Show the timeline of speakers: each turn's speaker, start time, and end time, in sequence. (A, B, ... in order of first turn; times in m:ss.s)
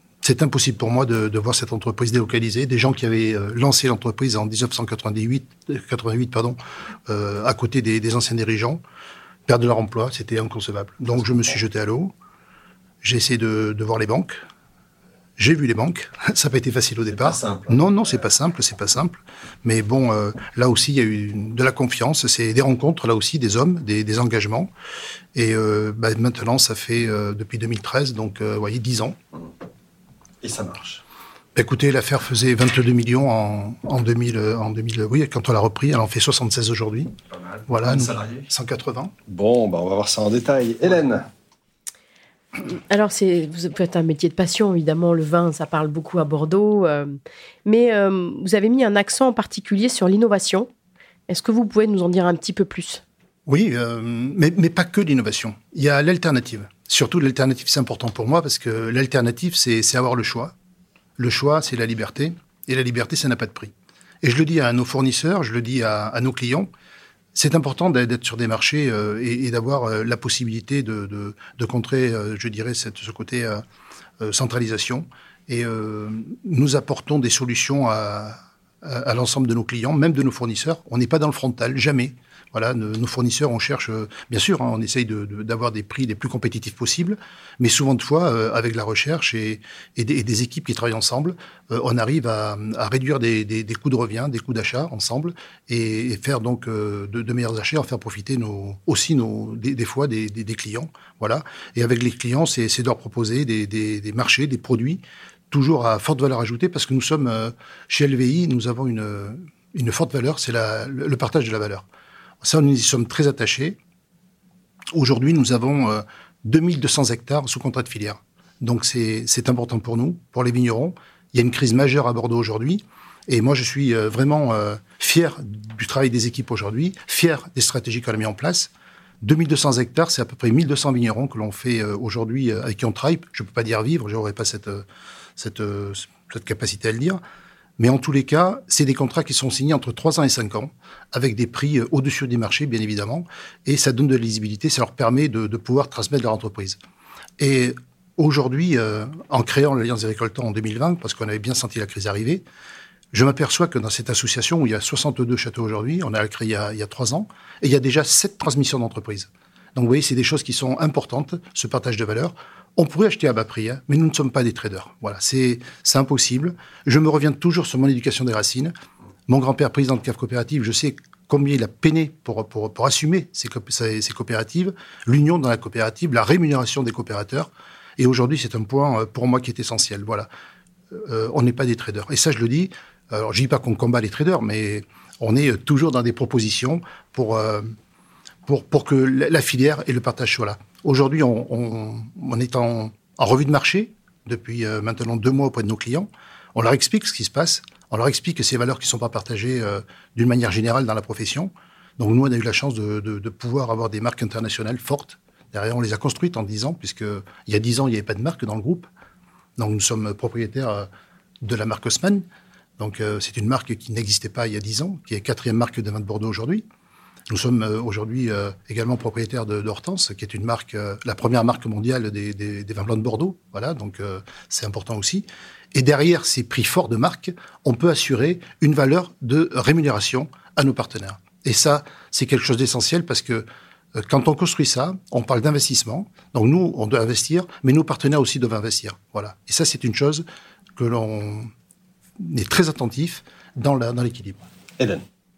0:00.2-0:08.8 A
0:09.5-0:12.1 A
0:13.0-0:14.3 A
0:15.4-0:24.7 A
0:17.1-0:17.8 B
0:25.3-0:29.2 A
0:30.4-0:31.0 B
0:31.5-0:37.1 A
0:37.3-0:38.5 B
0:37.7-0:39.1 A
0:39.3-0:41.2 B
0:42.6-0:50.7 C
0:51.3-0:53.0 C
0:53.4-1:00.5 A
1:01.2-1:06.7 A
1:07.3-1:13.6 A
1:14.2-1:51.9 A
1:52.4-1:53.8 A
1:54.9-2:08.7 A
2:09.2-2:14.8 A
2:15.4-2:17.2 A
2:17.8-2:26.8 A
2:27.4-2:32.4 A
2:33.1-2:48.7 A
2:49.3-3:00.3 A
3:00.9-3:07.7 A
3:08.4-3:28.9 A
3:29.6-3:30.9 A
3:31.4-3:32.2 A
3:32.8-3:36.6 A
3:37.3-4:00.2 A
4:00.8-4:01.5 A
4:02.2-4:04.4 A